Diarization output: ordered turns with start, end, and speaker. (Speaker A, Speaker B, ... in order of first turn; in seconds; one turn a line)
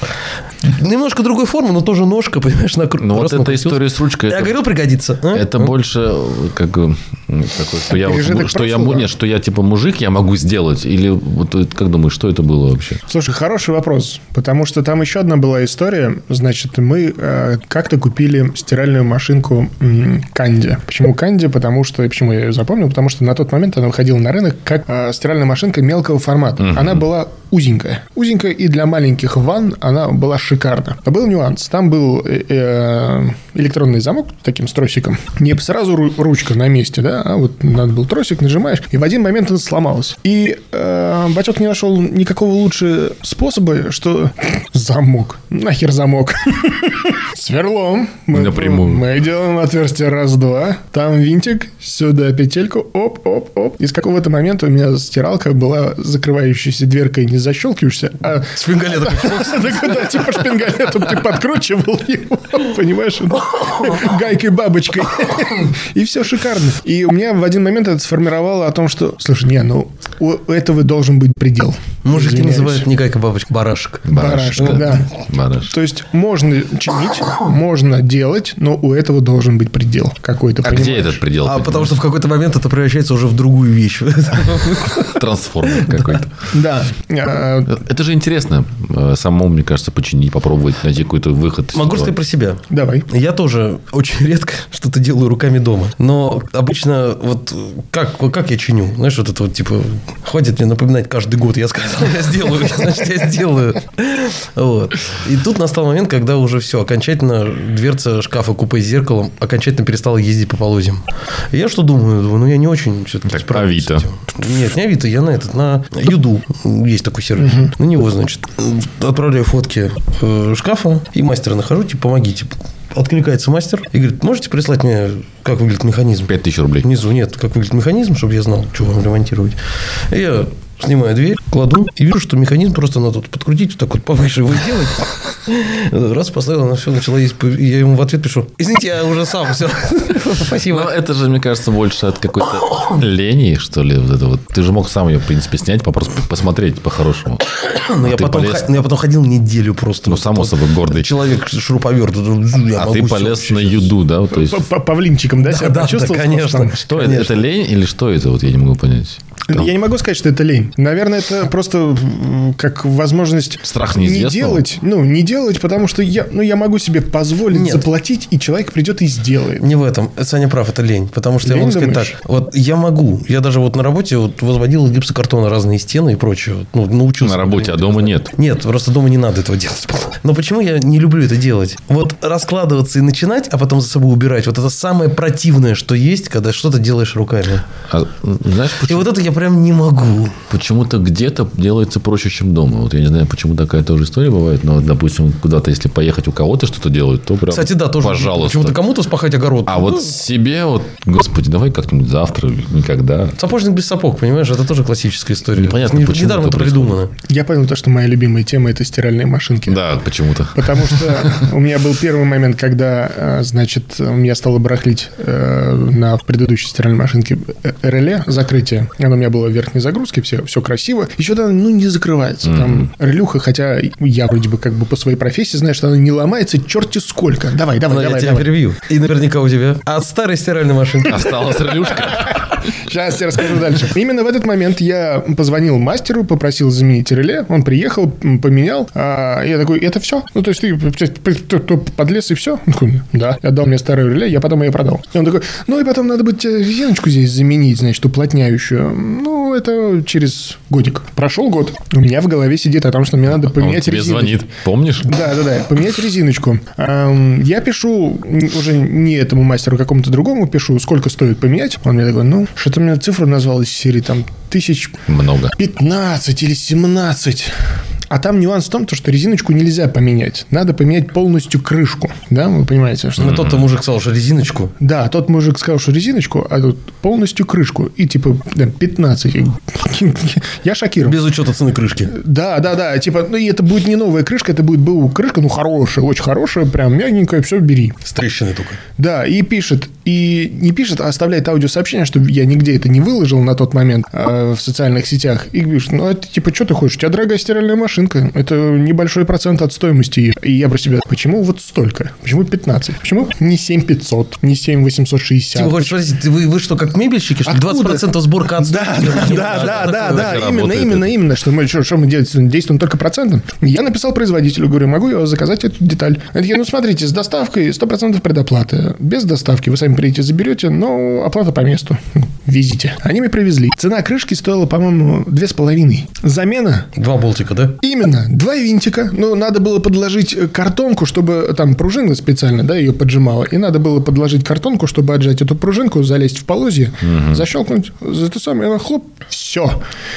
Speaker A: 0.6-5.7
Speaker B: 3.0-4.6
Speaker B: 5.3-13.0
Speaker C: 7.9-9.1
Speaker C: 13.1-72.9
Speaker B: 26.6-27.0
Speaker B: 48.3-49.0
Speaker A: 58.5-60.4
Speaker A: 72.0-74.9
Speaker B: 74.0-75.7
Speaker C: 74.1-81.2
Speaker B: 80.6-81.9
Speaker A: 81.4-86.2
Speaker B: 85.0-86.3
Speaker C: 86.5-87.7
Speaker B: 87.7-92.1
Speaker A: 91.7-126.3
Speaker C: 92.7-93.1
Speaker B: 113.2-114.1
Speaker C: 117.4-117.7
Speaker B: 126.3-126.9
Speaker A: 126.8-140.9
Speaker B: 140.7-148.7
Speaker A: 147.6-153.9
Speaker B: 150.0-151.2
Speaker B: 152.7-154.7
Speaker C: 154.3-156.8
Speaker A: 155.5-157.5
Speaker B: 156.9-159.6
Speaker C: 159.5-169.7
Speaker B: 163.7-164.7
Speaker A: 167.5-167.9
Speaker A: 169.6-187.7
Speaker C: 171.4-172.2
Speaker B: 177.2-178.3
Speaker B: 187.9-189.1
Speaker A: 188.8-190.4
Speaker B: 190.5-198.8
Speaker A: 197.5-200.2
Speaker B: 199.7-203.4
Speaker A: 203.4-207.1
Speaker B: 205.6-207.0
Speaker C: 207.3-209.8
Speaker B: 209.7-211.4
Speaker C: 210.5-228.5
Speaker B: 222.4-222.9
Speaker A: 227.9-231.4
Speaker B: 231.0-232.5
Speaker C: 231.7-254.4
Speaker B: 253.4-255.2
Speaker C: 255.0-265.0
Speaker B: 265.1-265.5
Speaker C: 265.6-267.5
Speaker C: 268.1-273.5
Speaker A: 273.2-274.7
Speaker B: 273.2-273.7
Speaker C: 274.8-281.2
Speaker A: 281.0-282.1
Speaker C: 282.1-288.0
Speaker A: 288.0-288.8
Speaker C: 289.0-305.9
Speaker A: 305.5-310.5
Speaker C: 307.5-326.9
Speaker B: 309.6-311.1
Speaker A: 327.0-327.8
Speaker C: 327.8-339.8
Speaker B: 337.0-337.5